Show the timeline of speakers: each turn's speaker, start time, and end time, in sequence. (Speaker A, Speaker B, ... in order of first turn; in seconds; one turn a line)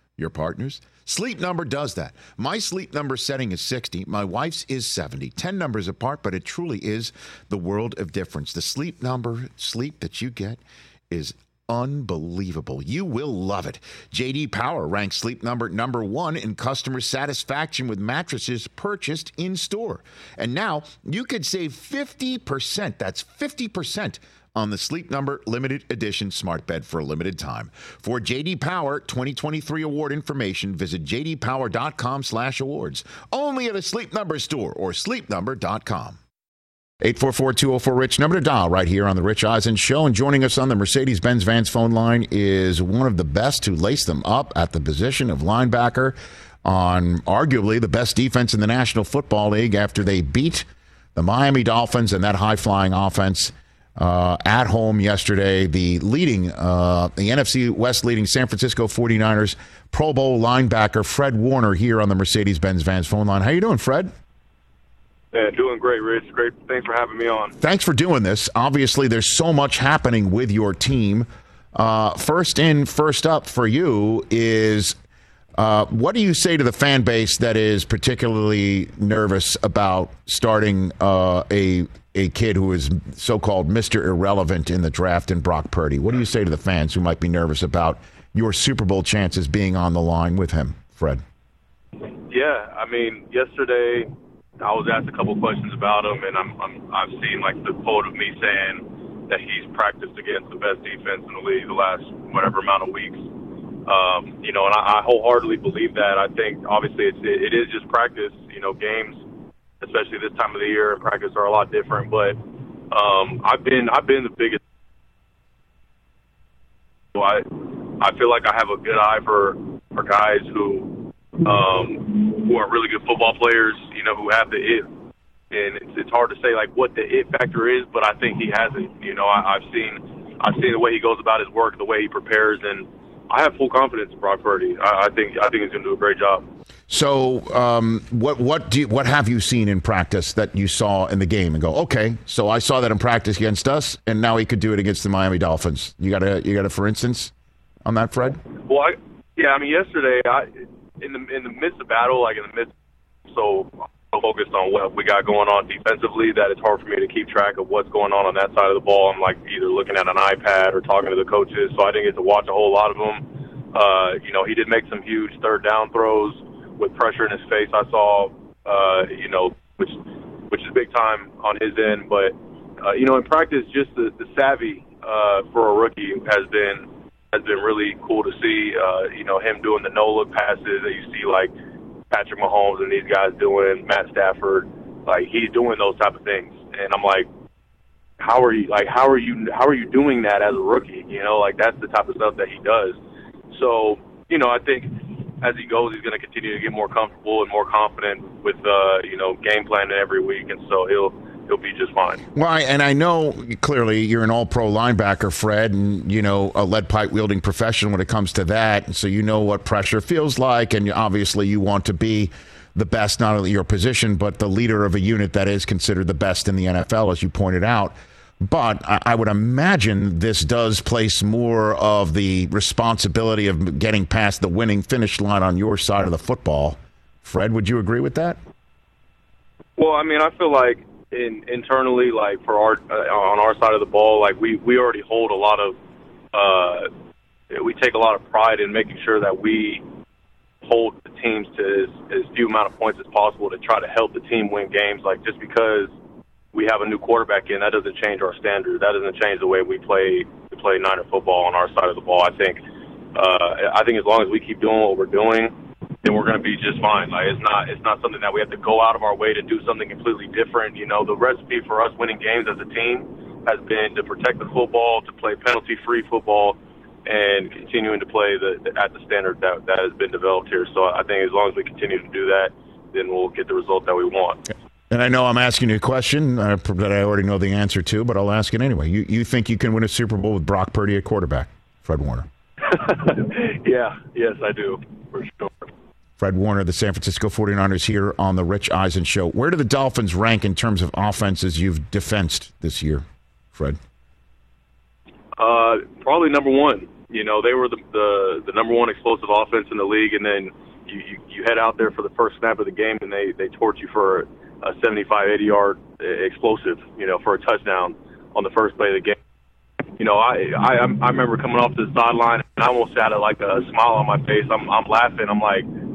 Speaker A: 0.2-36.2
Speaker A: 37.0-64.1
Speaker B: 65.3-67.5
Speaker A: 67.6-75.0
Speaker A: 75.6-91.2
Speaker B: 92.3-103.2
Speaker B: 103.9-109.2
Speaker B: 109.8-112.4
Speaker B: 112.9-114.6
Speaker B: 117.1-124.9
Speaker B: 125.5-136.4
Speaker A: 136.9-147.3
Speaker A: 147.8-148.4
Speaker B: 148.7-152.7
Speaker B: 153.3-181.5
Speaker B: 182.1-187.3
Speaker B: 188.2-193.0
Speaker B: 193.5-202.2
Speaker A: 202.3-228.4
Speaker B: 229.8-235.8
Speaker B: 236.3-236.9
Speaker B: 237.5-239.8
Speaker B: 240.6-245.9
Speaker B: 246.5-252.6
Speaker B: 253.2-274.4
Speaker A: 274.9-282.3
Speaker B: 282.6-285.7
Speaker A: 286.2-293.8
Speaker B: 295.4-309.2
Speaker B: 310.0-315.7